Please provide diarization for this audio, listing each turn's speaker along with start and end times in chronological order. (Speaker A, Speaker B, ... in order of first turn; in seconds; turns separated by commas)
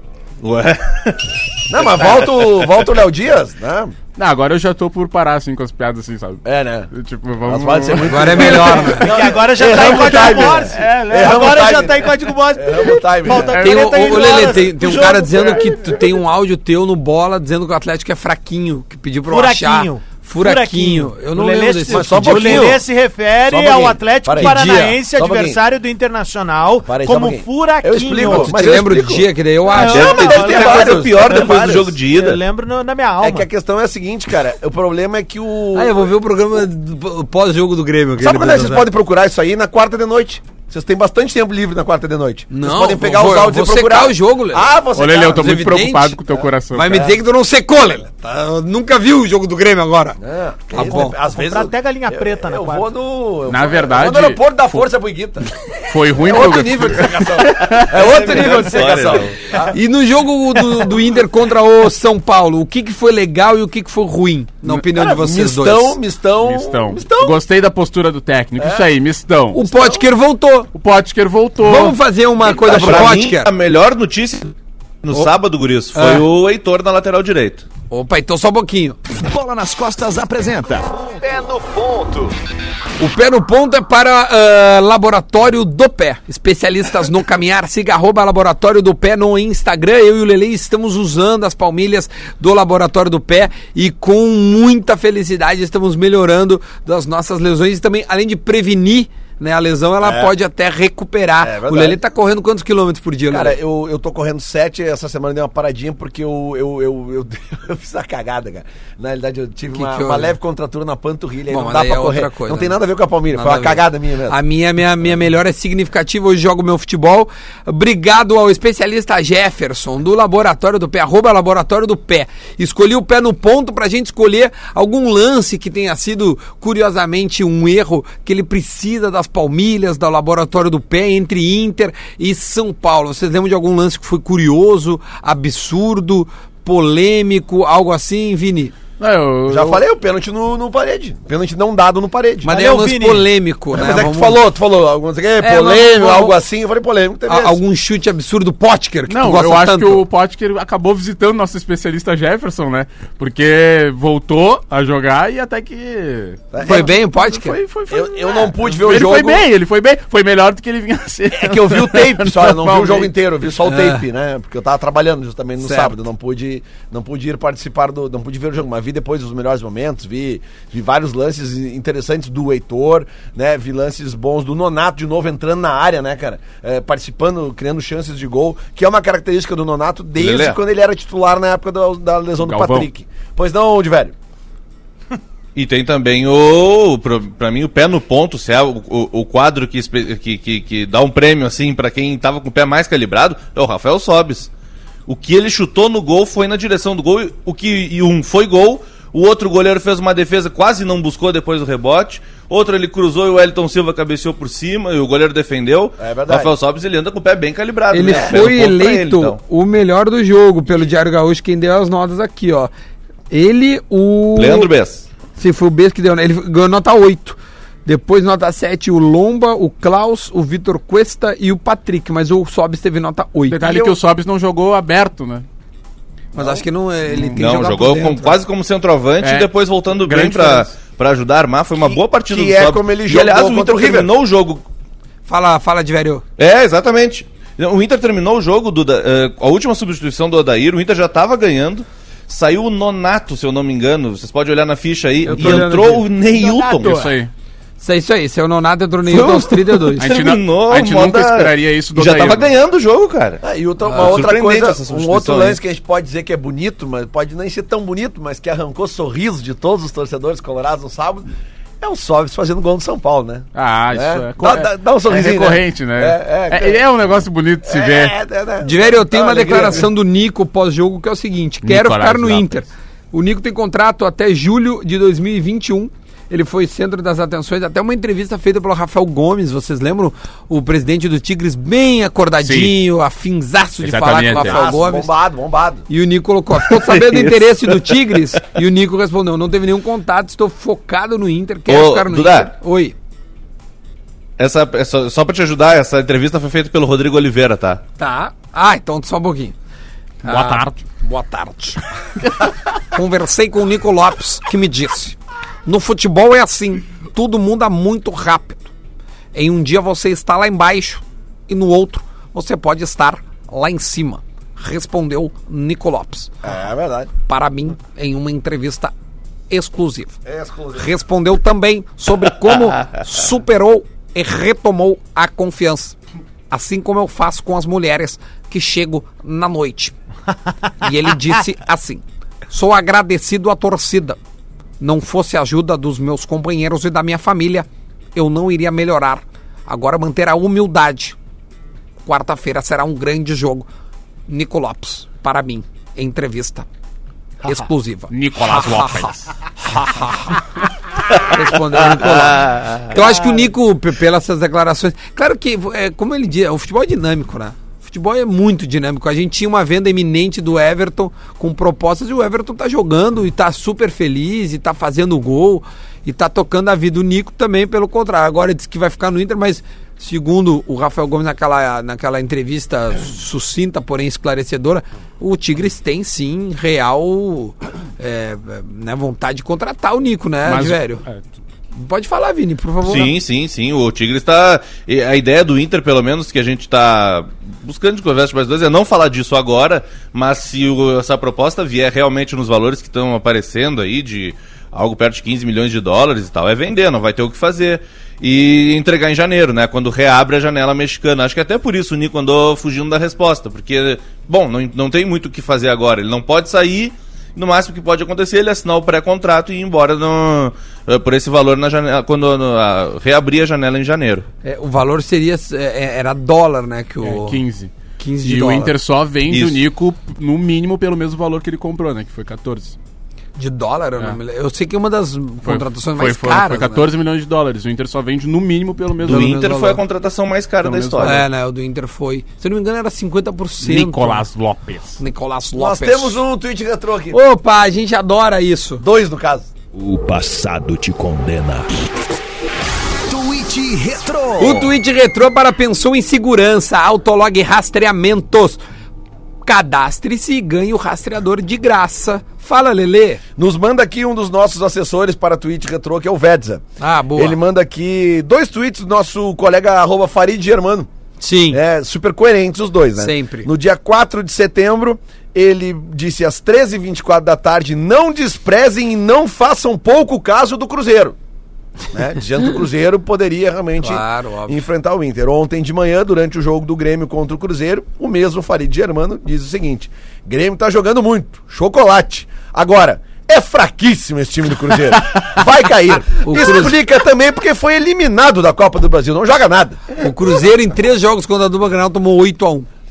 Speaker A: 0.4-2.7, Speaker B: 1.7-4.0, Speaker C: 4.2-8.8, Speaker B: 6.5-6.9, Speaker B: 7.5-13.6, Speaker D: 8.1-9.1, Speaker E: 8.7-15.7, Speaker C: 9.8-10.6, Speaker C: 13.5-14.4, Speaker D: 13.6-22.8, Speaker E: 19.3-28.5, Speaker B: 21.9-22.8, Speaker B: 23.5-25.6, Speaker D: 24.4-24.9, Speaker B: 26.9-29.3, Speaker D: 28.2-30.2, Speaker E: 29.7-33.5, Speaker A: 29.8-32.4, Speaker B: 29.9-32.0, Speaker B: 33.2-36.1, Speaker D: 35.7-38.9, Speaker B: 38.2-45.8, Speaker D: 42.5-44.7, Speaker C: 45.0-47.1, Speaker D: 45.3-46.2, Speaker B: 46.4-47.2, Speaker D: 46.7-50.2, Speaker B: 50.2-55.5, Speaker D: 50.7-51.2, Speaker E: 50.9-52.9, Speaker C: 53.5-54.9, Speaker C: 55.9-58.5, Speaker B: 56.1-59.8, Speaker D: 58.1-59.0, Speaker A: 58.2-59.4, Speaker D: 59.7-66.0, Speaker B: 64.7-67.4, Speaker C: 66.4-69.6, Speaker B: 68.6-68.9, Speaker D: 69.5-70.7, Speaker B: 69.6-70.1, Speaker C: 70.7-72.0, Speaker D: 71.6-73.5, Speaker A: 72.6-77.7, Speaker B: 72.7-73.1, Speaker D: 75.9-76.3, Speaker D: 77.9-79.0, Speaker F: 79.2-80.9, Speaker B: 80.9-82.3, Speaker D: 83.0-103.6, Speaker B: 100.0-100.3, Speaker B: 101.4-102.0, Speaker B: 103.3-114.4, Speaker D: 109.7-110.4, Speaker D: 111.5-112.8, Speaker D: 113.3-138.7, Speaker C: 139.0-139.8, Speaker B: 139.5-142.5, Speaker D: 142.4-144.4, Speaker E: 142.5-143.3, Speaker B: 143.7-147.6, Speaker D: 145.4-146.4, Speaker D: 147.3-150.0, Speaker C: 149.1-156.4, Speaker B: 156.5-157.0, Speaker D: 156.6-157.6, Speaker C: 157.3-163.1, Speaker B: 157.9-159.5, Speaker B: 161.3-184.1, Speaker D: 163.6-164.0, Speaker D: 165.6-165.9, Speaker A: 180.2-180.6, Speaker C: 182.4-182.9, Speaker A: 185.6-194.5, Speaker A: 195.1-209.4, Speaker B: 206.0-206.5, Speaker D: 207.9-212.7, Speaker B: 208.1-208.4, Speaker D: 213.3-214.7, Speaker A: 214.4-215.1, Speaker D: 215.4-223.9, Speaker C: 223.5-225.4, Speaker D: 226.3-228.4, Speaker B: 226.4-226.6, Speaker A: 227.3-234.7, Speaker C: 229.2-230.8, Speaker B: 231.8-234.1, Speaker D: 235.3-236.2, Speaker A: 236.4-247.1, Speaker D: 245.3-246.1, Speaker C: 245.3-245.9, Speaker C: 246.5-247.3, Speaker D: 247.8-250.1, Speaker A: 249.1-253.4, Speaker C: 250.0-252.5, Speaker B: 253.4-261.3, Speaker D: 253.8-254.2, Speaker A: 253.9-255.6, Speaker B: 261.8-266.9, Speaker C: 263.5-268.1, Speaker B: 267.6-269.9, Speaker D: 268.6-285.1, Speaker C: 271.6-272.7, Speaker C: 282.4-282.8, Speaker C: 283.8-284.6, Speaker B: 284.4-285.8, Speaker D: 285.9-292.9, Speaker A: 287.0-287.3, Speaker A: 291.7-292.5, Speaker A: 294.4-297.8, Speaker D: 298.0-299.5, Speaker D: 300.2-301.8, Speaker C: 300.2-300.8, Speaker D: 302.9-308.7, Speaker D: 309.3-316.3, Speaker B: 316.4-317.1, Speaker D: 317.3-318.9, Speaker D: 319.5-320.2, Speaker B: 320.2-320.9, Speaker D: 320.8-326.0, Speaker D: 326.5-329.9, Speaker D: 330.8-334.2, Speaker D: 334.8-341.2, Speaker D: 342.1-343.7, Speaker D: 344.3-346.7, Speaker D: 347.4-349.1, Speaker C: 348.1-349.3, Speaker D: 349.6-350.4, Speaker D: 351.2-381.0, Speaker C: 380.4-381.3, Speaker D: 381.8-383.1, Speaker A: 382.8-414.3, Speaker D: 414.4-417.4, Speaker C: 417.0-422.8, Speaker D: 418.0-418.7, Speaker A: 419.3-419.6, Speaker D: 423.4-426.9, Speaker C: 425.4-429.4, Speaker A: 429.0-431.2, Speaker D: 429.0-429.8, Speaker C: 430.6-431.2, Speaker D: 431.0-434.2, Speaker C: 433.6-435.0, Speaker D: 435.0-436.2, Speaker B: 435.6-437.2, Speaker D: 437.1-438.8, Speaker B: 438.8-439.5, Speaker F: 439.7-441.7, Speaker F: 443.1-444.7, Speaker D: 444.4-448.6, Speaker D: 449.4-453.2, Speaker B: 453.4-456.6, Speaker D: 456.8-457.4, Speaker B: 457.2-460.9, Speaker D: 461.2-461.6, Speaker B: 461.5-471.1, Speaker D: 463.0-463.5, Speaker B: 471.9-490.0, Speaker D: 473.8-474.6, Speaker D: 486.2-486.8, Speaker D: 490.0-492.7